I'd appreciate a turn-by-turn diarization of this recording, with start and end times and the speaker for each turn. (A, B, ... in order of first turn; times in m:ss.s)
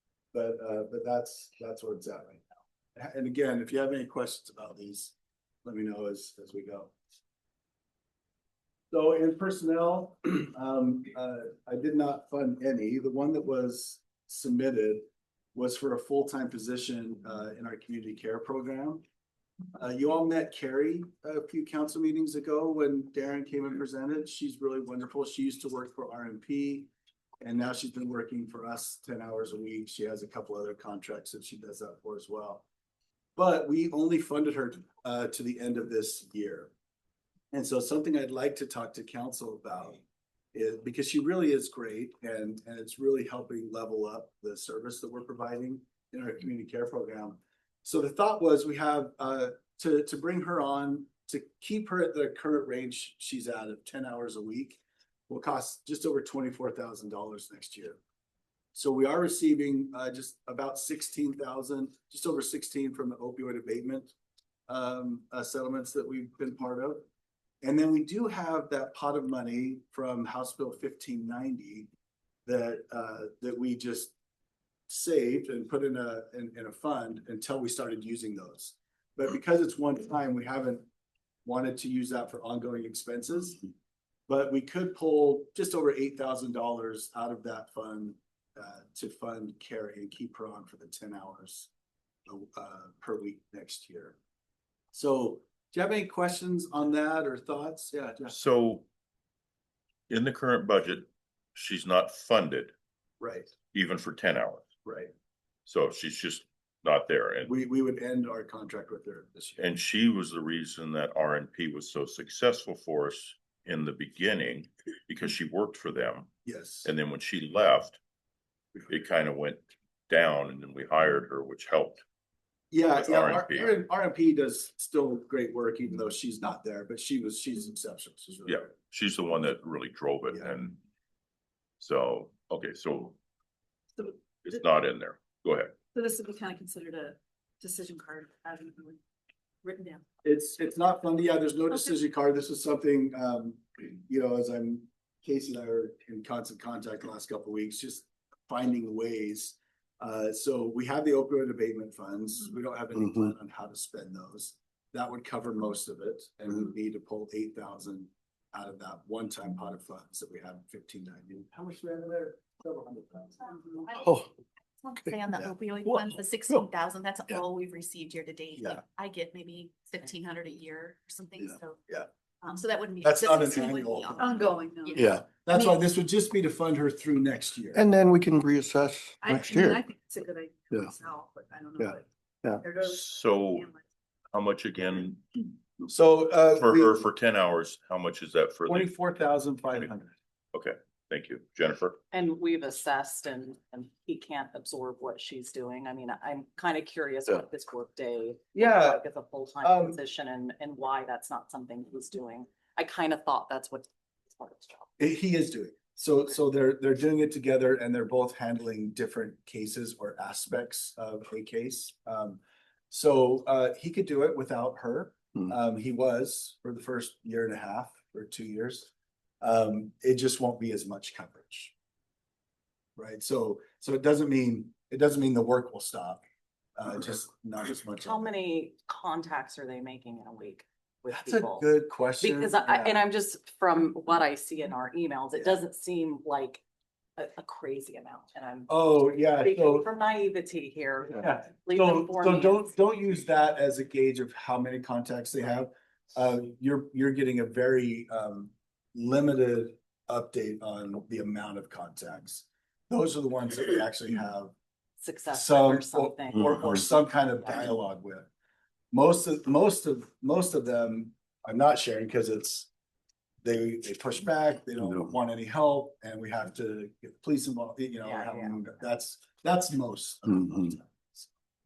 0:00.3-0:05.1 A
0:05.6-0:06.9 A
0:08.9-0:19.0 A
0:19.7-0:32.6 A
0:33.4-0:36.7 A
0:37.5-0:40.0 A
0:40.5-0:58.0 A
0:58.7-1:04.1 A
1:04.7-1:07.0 A
1:07.6-1:11.9 A
1:12.4-1:14.1 A
1:14.9-1:20.8 A
1:21.4-1:23.6 A
1:24.3-1:31.7 A
1:32.3-1:34.2 A
1:34.9-1:38.4 A
1:38.3-1:38.8 B
1:40.1-1:42.7 B
1:43.2-1:43.5 A
1:43.7-1:44.7 B
1:44.8-1:45.1 A
1:45.6-1:47.5 B
1:47.4-1:49.6 A
1:49.6-1:56.3 B
1:56.4-1:56.9 A
1:56.8-1:58.0 B
1:58.9-2:02.0 B
2:02.7-2:08.7 A
2:03.0-2:03.8 B
2:08.5-2:10.8 B
2:11.8-2:13.2 B
2:14.0-2:15.8 B
2:15.9-2:19.0 C
2:19.6-2:20.0 C
2:20.2-2:43.8 A
2:44.0-2:44.3 D
2:44.8-2:51.8 E
2:52.4-2:55.7 E
2:53.0-2:54.4 A
2:54.2-2:55.1 C
2:55.0-2:55.2 D
2:55.4-2:57.8 A
2:57.7-2:59.8 D
2:59.2-3:02.0 C
3:01.8-3:02.6 D
3:02.6-3:03.8 C
3:02.7-3:03.7 B
3:04.3-3:05.2 B
3:05.9-3:07.0 A
3:06.5-3:09.0 B
3:08.6-3:10.1 A
3:10.5-3:12.0 B
3:12.1-3:24.9 F
3:18.5-3:19.0 A
3:19.6-3:20.0 A
3:25.0-3:38.9 A
3:39.4-3:41.7 A
3:43.0-3:46.2 A
3:46.8-3:48.3 A
3:48.0-3:56.6 F
3:51.1-3:53.0 A
3:57.2-4:02.7 F
3:58.7-3:59.9 A
4:01.1-4:14.5 A
4:15.0-4:17.6 F
4:15.3-4:18.3 A
4:18.9-4:22.7 A
4:23.4-4:31.3 A
4:28.0-4:28.7 F